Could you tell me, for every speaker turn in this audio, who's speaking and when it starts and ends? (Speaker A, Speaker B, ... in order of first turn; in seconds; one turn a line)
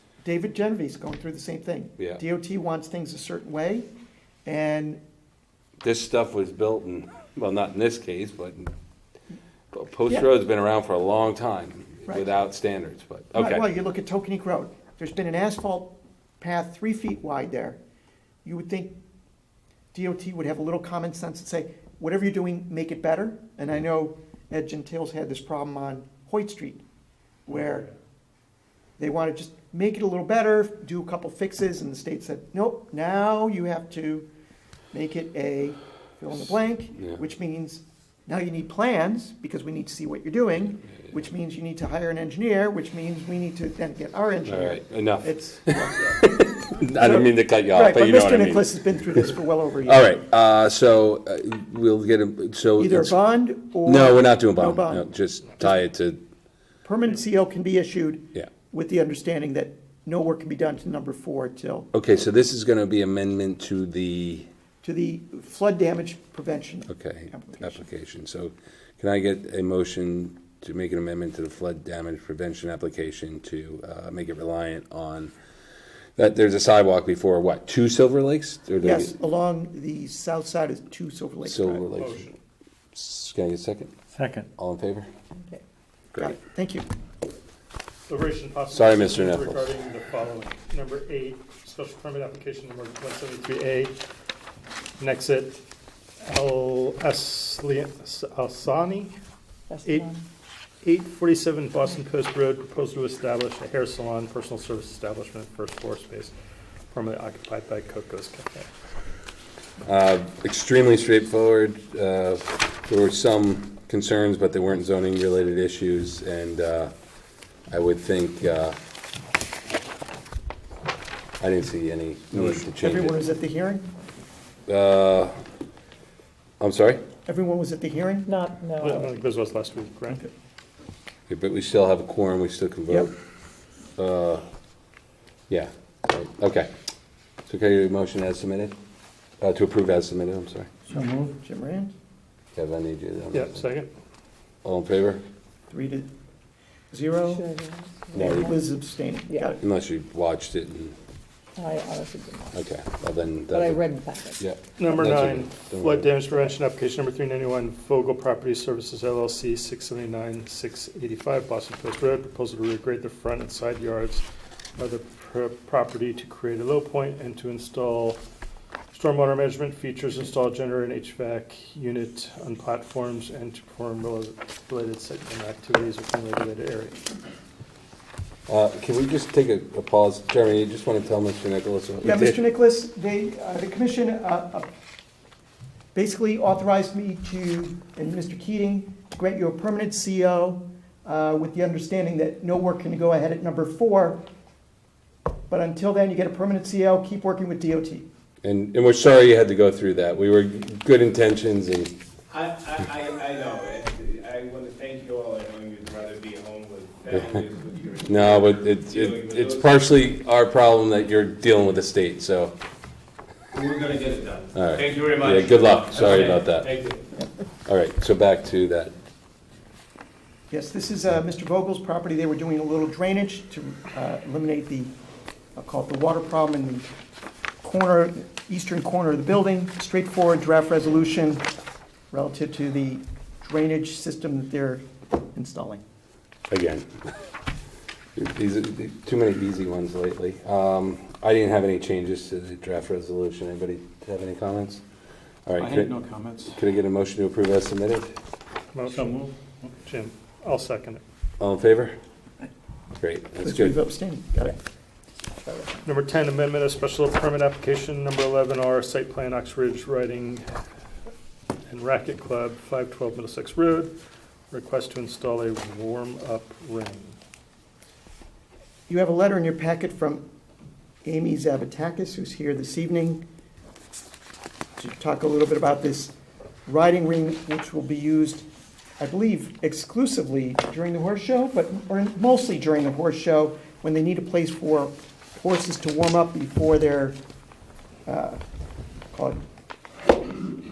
Speaker A: 0.2-3.9
Speaker A: 4.5-5.0
Speaker B: 5.8-8.7
Speaker B: 9.7-13.6
Speaker A: 12.1-12.3
Speaker A: 13.3-17.8
Speaker A: 18.4-19.0
Speaker A: 19.9-26.8
Speaker A: 27.5-27.9
Speaker A: 29.0-34.3
Speaker A: 34.9-46.3
Speaker B: 44.5-49.3
Speaker A: 46.9-50.1
Speaker B: 49.9-53.2
Speaker A: 52.8-55.8
Speaker B: 53.9-56.2
Speaker A: 56.8-61.9
Speaker B: 61.9-64.5
Speaker A: 64.8-67.9
Speaker B: 66.9-75.3
Speaker B: 76.2-79.1
Speaker A: 78.8-81.8
Speaker B: 81.4-82.4
Speaker C: 82.0-82.3
Speaker B: 82.9-83.9
Speaker B: 84.6-85.1
Speaker A: 86.2-86.9
Speaker C: 88.1-93.9
Speaker B: 88.7-89.7
Speaker C: 95.0-95.6
Speaker C: 96.2-99.1
Speaker D: 99.7-100.3
Speaker C: 99.8-100.1
Speaker C: 100.8-106.3
Speaker C: 106.9-108.7
Speaker B: 109.8-116.9
Speaker B: 117.7-118.8
Speaker B: 121.4-123.2
Speaker A: 122.4-123.9
Speaker B: 124.7-125.3
Speaker B: 126.6-127.1
Speaker A: 127.2-128.3
Speaker D: 128.3-129.1
Speaker C: 128.8-130.2
Speaker B: 131.3-133.1
Speaker B: 134.0-134.4
Speaker B: 135.5-136.7
Speaker B: 137.5-138.8
Speaker B: 139.4-140.9
Speaker E: 140.9-141.3
Speaker A: 141.2-141.9
Speaker B: 142.6-143.7
Speaker C: 143.3-143.9
Speaker B: 144.6-145.2
Speaker A: 145.7-146.1
Speaker A: 146.9-147.5
Speaker D: 147.3-148.7
Speaker A: 148.1-149.6
Speaker B: 148.2-148.5
Speaker D: 149.3-149.6
Speaker B: 149.6-150.9
Speaker D: 151.6-152.6
Speaker B: 152.5-153.9
Speaker D: 153.5-154.4
Speaker B: 154.4-156.2
Speaker C: 154.8-164.2
Speaker C: 164.8-168.2
Speaker C: 168.9-177.0
Speaker B: 178.5-182.4
Speaker A: 182.0-184.7
Speaker A: 185.9-194.2
Speaker A: 195.5-198.1
Speaker B: 198.4-201.9
Speaker F: 202.3-209.8
Speaker B: 207.1-207.3
Speaker B: 208.1-212.6
Speaker F: 213.5-217.0
Speaker B: 214.6-216.8
Speaker B: 217.7-218.9
Speaker A: 220.5-224.9
Speaker A: 225.6-226.9
Speaker A: 227.6-231.4
Speaker A: 232.1-235.8
Speaker B: 236.5-236.9
Speaker B: 238.2-244.8
Speaker B: 245.5-248.1
Speaker E: 245.6-246.6
Speaker C: 248.7-249.3
Speaker E: 248.9-249.7
Speaker C: 249.8-251.0
Speaker B: 251.4-251.9
Speaker B: 253.0-253.8
Speaker A: 253.4-254.6
Speaker D: 255.4-255.8
Speaker C: 255.8-260.6
Speaker C: 261.7-263.9
Speaker C: 264.5-267.2
Speaker A: 268.9-270.3
Speaker A: 271.0-273.2
Speaker A: 274.8-276.1
Speaker A: 276.7-278.4
Speaker A: 279.0-287.2
Speaker A: 288.1-288.4
Speaker A: 289.1-289.4